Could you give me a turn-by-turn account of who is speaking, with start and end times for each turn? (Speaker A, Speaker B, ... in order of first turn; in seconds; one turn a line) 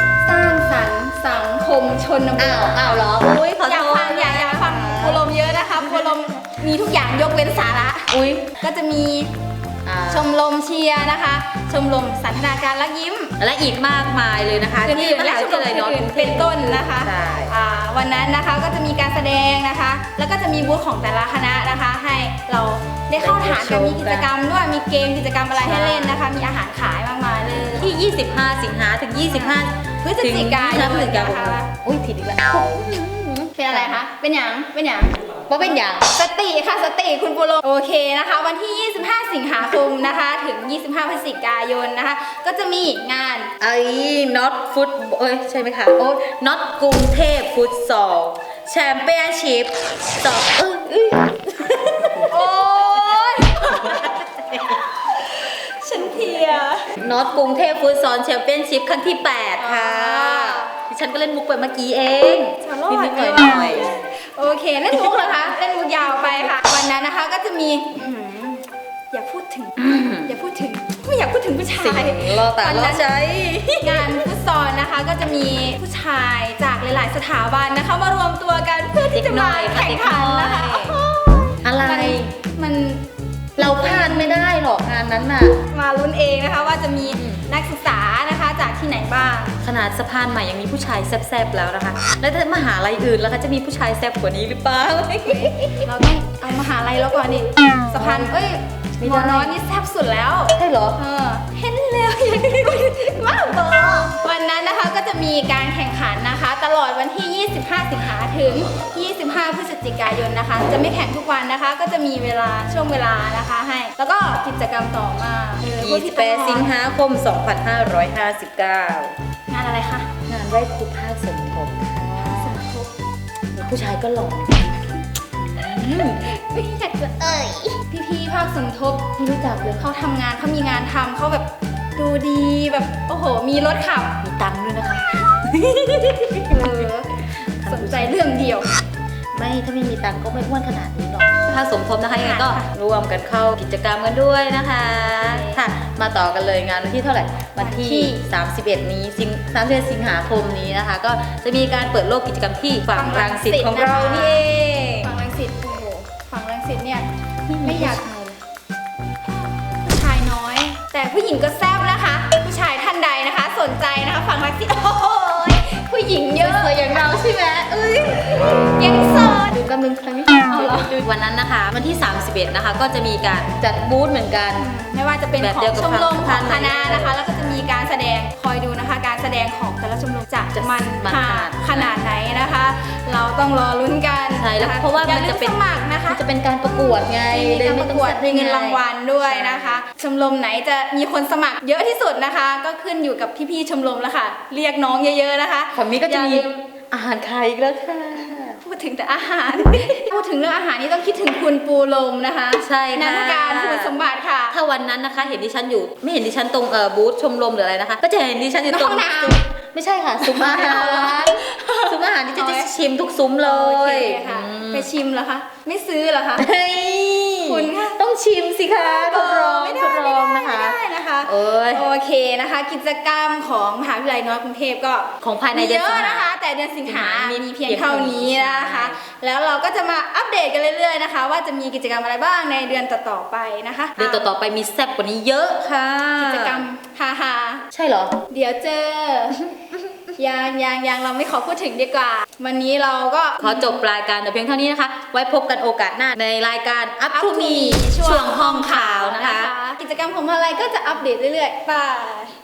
Speaker A: 0.2-9.3
Speaker B: 2.4-6.2
Speaker B: 8.1-8.6
Speaker B: 9.8-10.4
Speaker A: 10.1-13.3
Speaker B: 13.4-17.6
Speaker A: 14.8-27.9
Speaker B: 23.2-24.3
Speaker B: 25.6-26.3
Speaker B: 27.7-34.0
Speaker A: 29.3-31.7
Speaker A: 33.6-43.5
Speaker B: 35.5-36.1
Speaker B: 43.6-52.9
Speaker A: 52.2-56.9
Speaker B: 53.6-54.8
Speaker B: 57.0-64.0
Speaker A: 59.6-60.7
Speaker A: 62.6-73.1
Speaker B: 64.9-65.5
Speaker B: 69.8-70.4
Speaker B: 71.7-74.3
Speaker A: 73.8-83.0
Speaker B: 79.1-81.0
Speaker B: 81.6-82.3
Speaker A: 83.6-84.4
Speaker B: 83.6-85.6
Speaker A: 85.7-89.6
Speaker B: 87.1-87.5
Speaker B: 89.6-95.8
Speaker A: 95.3-116.7
Speaker B: 97.9-98.4
Speaker B: 99.0-99.6
Speaker B: 100.5-101.0
Speaker B: 115.7-119.1
Speaker A: 119.5-120.1
Speaker B: 120.3-122.7
Speaker A: 122.3-122.9
Speaker B: 123.5-125.0
Speaker B: 125.5-126.3
Speaker A: 125.7-129.1
Speaker B: 129.2-129.9
Speaker A: 129.8-134.2
Speaker B: 134.2-136.7
Speaker A: 136.3-138.7
Speaker B: 137.6-138.3
Speaker B: 139.3-155.1
Speaker A: 142.2-142.7
Speaker A: 145.1-145.6
Speaker A: 147.6-148.2
Speaker A: 152.9-154.5
Speaker A: 155.0-157.1
Speaker B: 157.5-158.4
Speaker A: 157.6-158.0
Speaker A: 159.8-167.0
Speaker B: 166.4-174.7
Speaker A: 168.6-169.6
Speaker A: 170.5-171.0
Speaker A: 174.6-196.5
Speaker B: 175.4-177.7
Speaker B: 180.5-182.0
Speaker B: 184.3-189.8
Speaker B: 195.7-198.6
Speaker A: 198.6-204.6
Speaker B: 199.6-200.0
Speaker B: 202.6-214.9
Speaker A: 208.7-209.4
Speaker A: 210.2-212.7
Speaker A: 213.4-216.5
Speaker B: 216.4-221.9
Speaker A: 217.4-218.0
Speaker A: 218.8-234.3
Speaker B: 225.2-226.3
Speaker B: 226.8-229.0
Speaker B: 234.0-236.7
Speaker A: 236.2-237.6
Speaker B: 237.7-238.2
Speaker A: 238.3-239.5
Speaker A: 240.2-243.8
Speaker B: 243.4-249.5
Speaker A: 247.1-252.3